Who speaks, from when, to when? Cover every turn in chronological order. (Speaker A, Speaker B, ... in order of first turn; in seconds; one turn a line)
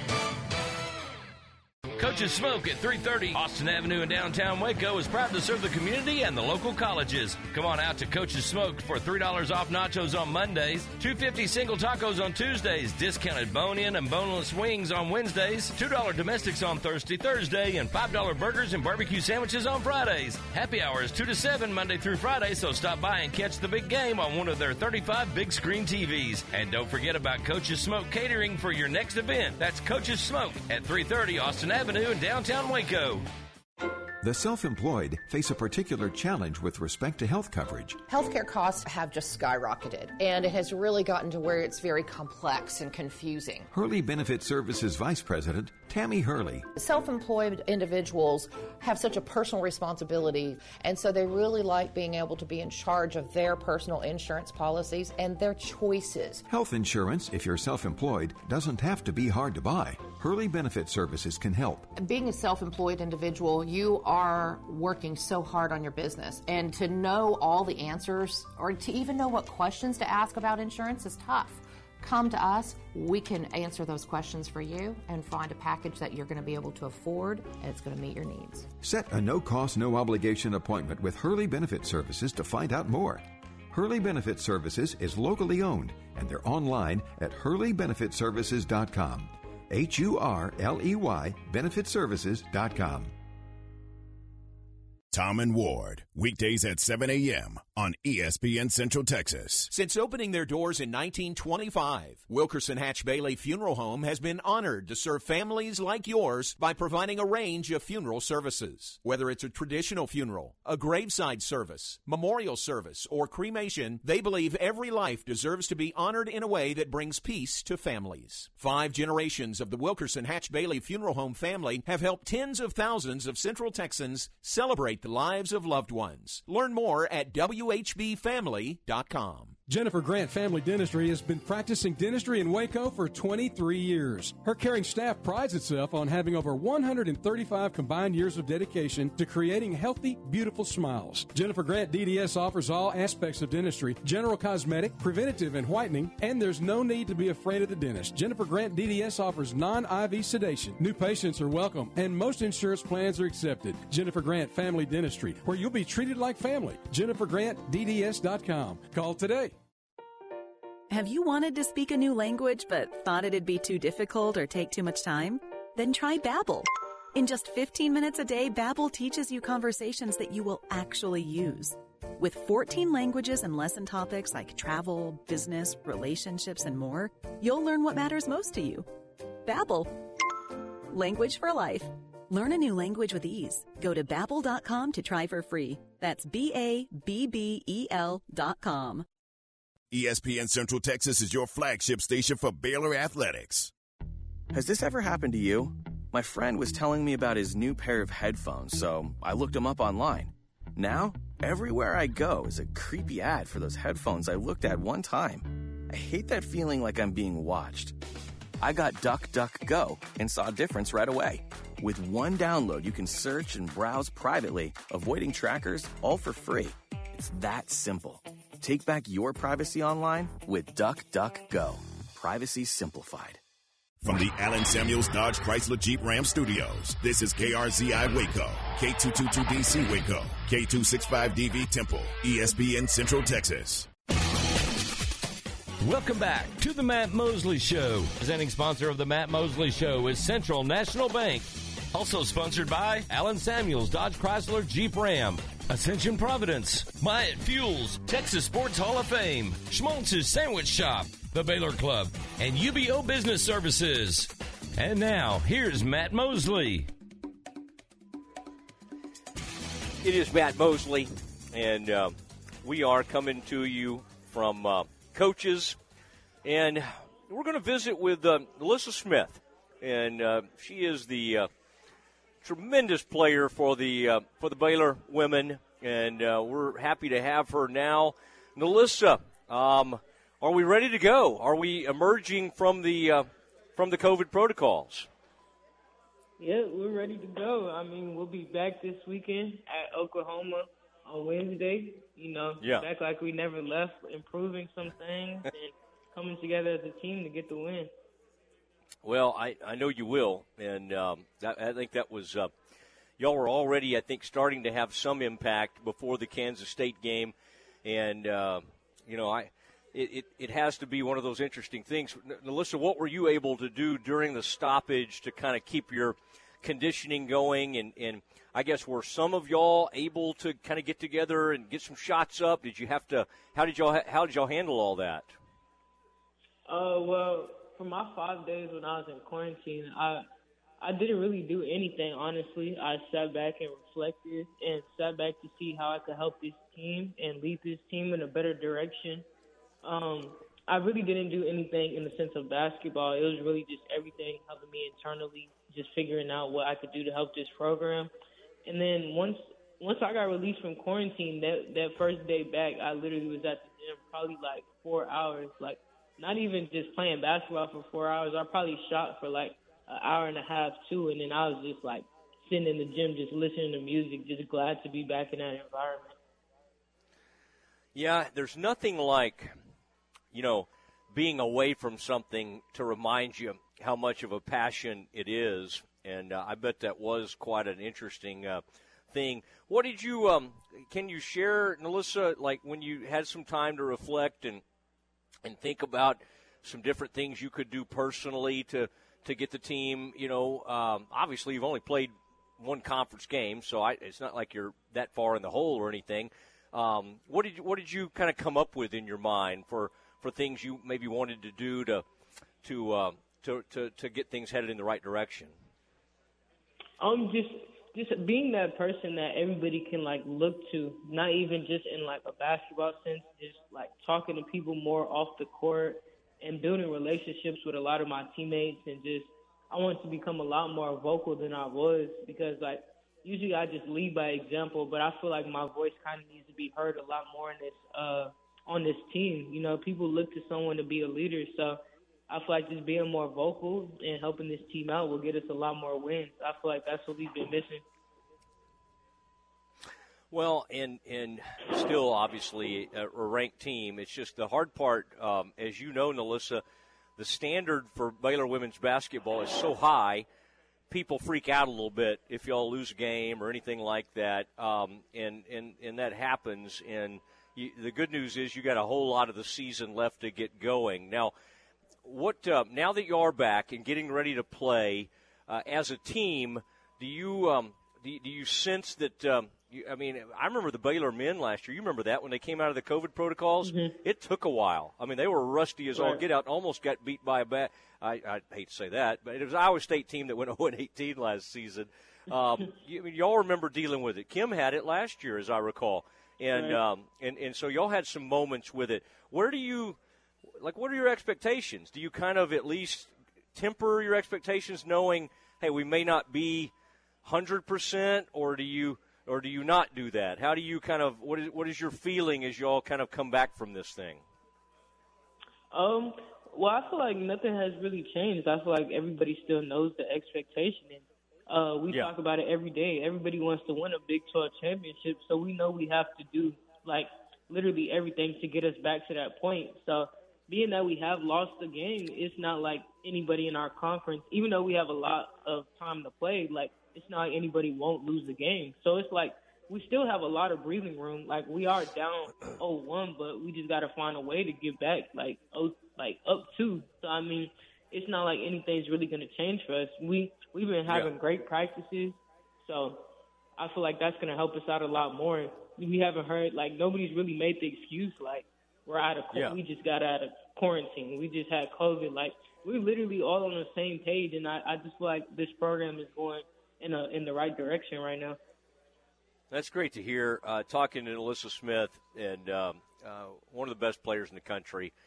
Speaker A: 2.0-33.3
Speaker B: 34.2-38.0
Speaker C: 38.0-43.7
Speaker B: 43.7-46.7
Speaker C: 46.7-56.4
Speaker B: 56.5-61.9
Speaker C: 62.0-78.7
Speaker B: 78.8-93.1
Speaker D: 95.1-99.7
Speaker E: 99.7-129.6
Speaker F: 129.7-159.5
Speaker G: 160.9-178.9
Speaker G: 179.4-180.1
Speaker G: 180.9-189.1
Speaker D: 189.9-193.7
Speaker H: 194.5-208.0
Speaker H: 208.6-223.4
Speaker D: 224.0-233.9
Speaker A: 235.8-256.9
Speaker I: 260.0-265.8
Speaker I: 266.4-271.5
Speaker I: 272.4-285.1
Speaker J: 286.4-297.9
Speaker I: 292.6-292.9
Speaker I: 299.0-302.5
Speaker I: 303.2-307.3
Speaker I: 307.8-325.3
Speaker J: 326.7-330.2
Speaker J: 330.8-339.2
Speaker J: 339.8-348.1
Speaker J: 348.6-366.1
Speaker I: 367.9-369.5
Speaker I: 370.3-384.6
Speaker I: 385.4-402.0
Speaker I: 402.6-405.5
Speaker J: 407.0-437.8
Speaker I: 440.3-446.6
Speaker I: 447.2-450.2
Speaker I: 450.9-461.3
Speaker I: 462.0-490.0
Speaker J: 473.6-474.0
Speaker J: 475.9-476.2
Speaker J: 486.5-486.8
Speaker I: 490.6-496.7
Speaker I: 497.2-504.2
Speaker J: 505.7-543.0
Speaker I: 540.9-541.1
Speaker J: 543.6-558.4
Speaker I: 549.3-549.6
Speaker I: 559.5-564.9